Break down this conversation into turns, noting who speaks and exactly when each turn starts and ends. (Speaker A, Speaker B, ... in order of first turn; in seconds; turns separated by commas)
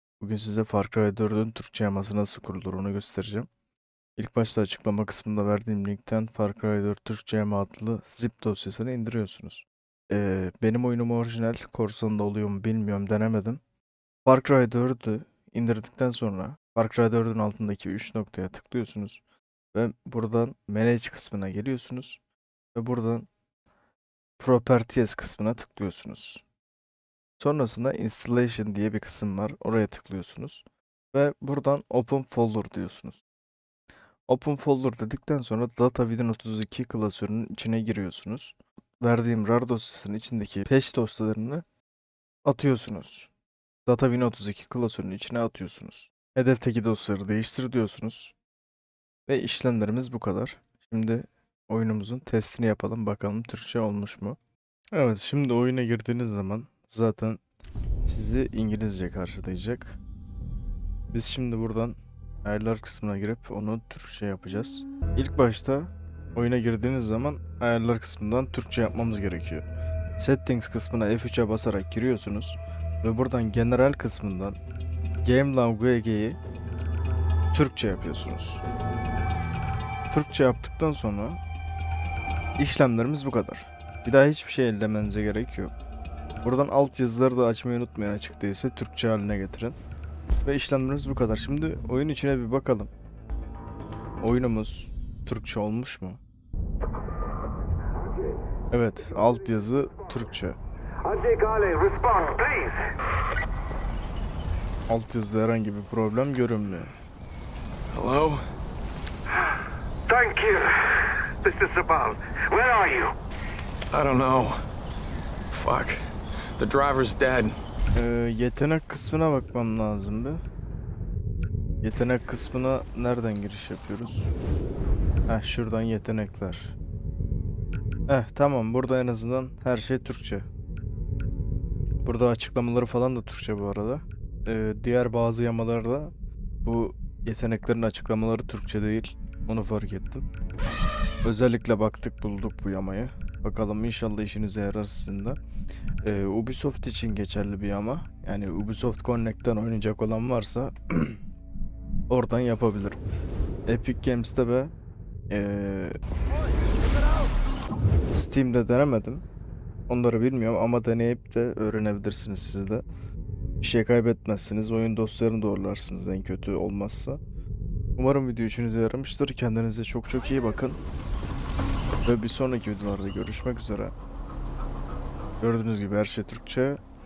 Speaker A: 0.2-3.5, Speaker A: 4.2-13.6, Speaker A: 14.3-19.2, Speaker A: 19.7-22.2, Speaker A: 22.8-23.3, Speaker A: 24.4-26.4, Speaker A: 27.4-33.2, Speaker A: 34.3-41.6, Speaker A: 42.5-43.3, Speaker A: 43.9-48.3, Speaker A: 49.3-54.4, Speaker A: 54.9-57.4, Speaker A: 58.1-60.0, Speaker A: 61.1-74.6, Speaker A: 75.2-76.4, Speaker A: 77.5-78.6, Speaker A: 80.1-81.4, Speaker A: 82.6-85.7, Speaker A: 86.4-89.8, Speaker A: 90.4-92.9, Speaker A: 94.2-96.2, Speaker A: 98.7-100.6, Speaker B: 101.1-102.8, Speaker A: 104.9-106.9, Speaker C: 107.9-108.5, Speaker B: 110.1-110.7, Speaker C: 110.3-112.5, Speaker B: 111.7-113.0, Speaker C: 113.9-114.6, Speaker C: 115.5-117.6, Speaker A: 117.9-120.4, Speaker A: 121.8-124.4, Speaker A: 125.3-126.8, Speaker A: 128.1-130.5, Speaker A: 132.0-136.1, Speaker A: 136.6-140.3, Speaker A: 141.2-145.4, Speaker A: 146.0-151.2, Speaker A: 152.1-153.0, Speaker A: 153.7-154.7, Speaker A: 155.3-156.0, Speaker A: 158.1-159.2, Speaker A: 159.9-162.8, Speaker A: 163.6-167.2, Speaker A: 168.0-170.8, Speaker A: 172.1-173.9, Speaker A: 175.4-176.8